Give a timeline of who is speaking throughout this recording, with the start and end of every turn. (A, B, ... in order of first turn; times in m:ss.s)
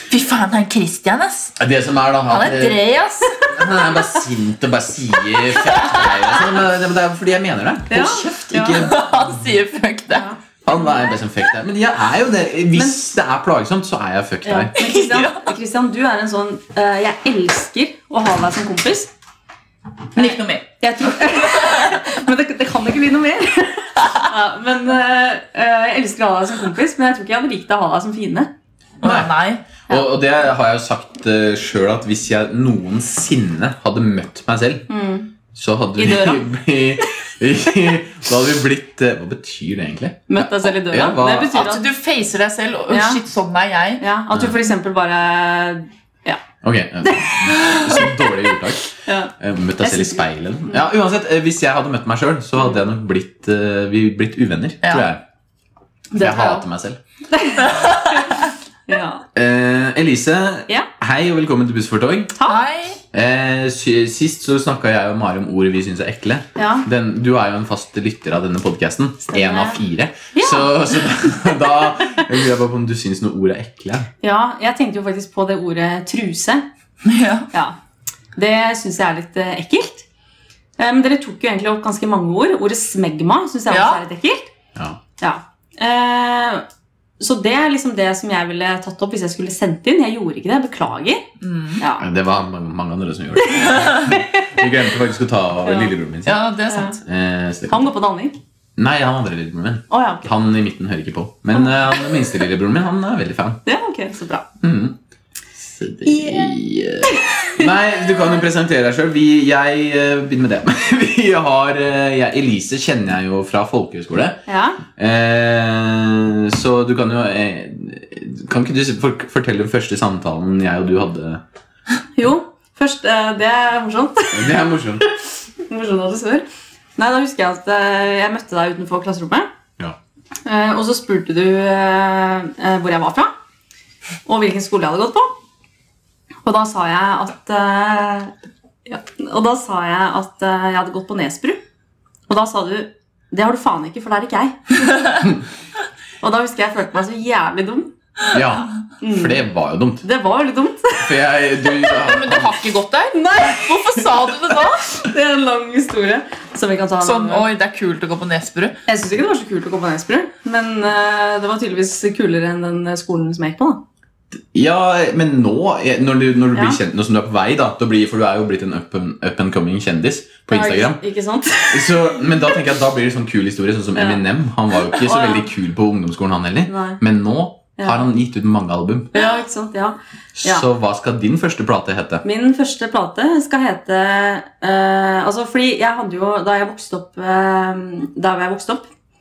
0:00.1-0:01.6 A
0:01.6-0:02.8 B
0:02.3-0:03.4 A
0:03.4-0:09.2 B
0:05.7-0:06.1 A
0:07.9-0:08.9 C
0:08.7-0:10.3 A
0:10.6-0:14.7 B
0:14.4-0:19.1 C
0:14.8-0:15.5 A
0:20.2-0:20.6 A
0:20.2-0:28.5 C
0:21.5-0:21.9 A
0:29.0-0:29.6 A
0:29.0-0:29.3 B
0:29.9-0:34.8 B
0:34.9-0:35.3 C
0:35.5-0:41.6 B
0:36.0-0:36.4 C
0:40.3-0:41.8 C
0:41.5-0:44.0 A
0:42.9-0:43.2 C
0:44.0-0:46.4 C
0:46.6-0:55.2 B
0:47.0-0:48.1 C
0:49.0-0:50.8 C
0:56.2-0:56.6 A
0:56.2-0:57.0 B
0:57.3-0:59.2 C
0:57.6-0:58.5 A
0:59.3-1:02.3 B
1:02.5-1:03.0 A
1:03.1-1:14.1 B
1:06.6-1:06.8 C
1:09.3-1:09.8 C
1:10.3-1:10.7 C
1:14.2-1:16.6 C
1:17.0-1:17.5 A
1:18.4-1:20.0 C
1:20.8-1:24.5 C
1:23.7-1:24.0 A
1:25.2-1:26.6 C
1:27.2-1:31.3 C
1:31.4-1:31.8 A
1:31.8-1:32.0 C
1:32.0-1:36.4 B
1:33.4-1:34.7 C
1:35.6-1:35.9 C
1:36.2-1:37.0 A
1:36.7-1:37.0 C
1:37.0-1:37.8 B
1:37.7-1:38.4 C
1:38.8-1:43.6 B
1:39.9-1:40.3 C
1:41.5-1:42.4 C
1:43.6-1:44.4 C
1:44.6-1:45.0 B
1:45.6-2:01.4 B
1:46.0-1:47.7 C
1:54.5-1:54.8 C
2:02.2-2:06.4 C
2:04.3-2:05.0 B
2:07.0-2:09.5 C
2:10.4-2:13.3 C
2:14.2-2:15.3 C
2:16.4-2:18.3 C
2:18.8-2:21.6 C
2:22.3-2:25.1 C
2:26.2-2:27.9 C
2:28.3-2:30.0 B
2:29.0-2:29.4 C
2:30.0-2:32.1 C
2:31.0-2:32.5 B
2:32.0-2:34.8 A
2:33.1-2:37.5 C
2:37.0-2:38.8 A
2:38.9-2:43.8 C
2:44.5-2:51.0 B
2:50.5-2:52.6 C
2:51.7-2:59.1 B
2:54.0-2:54.2 C
2:54.8-2:55.5 C
2:56.7-2:57.0 C
2:57.8-2:58.0 C
2:59.1-3:00.6 C
3:00.4-3:02.2 B
3:02.2-3:08.9 C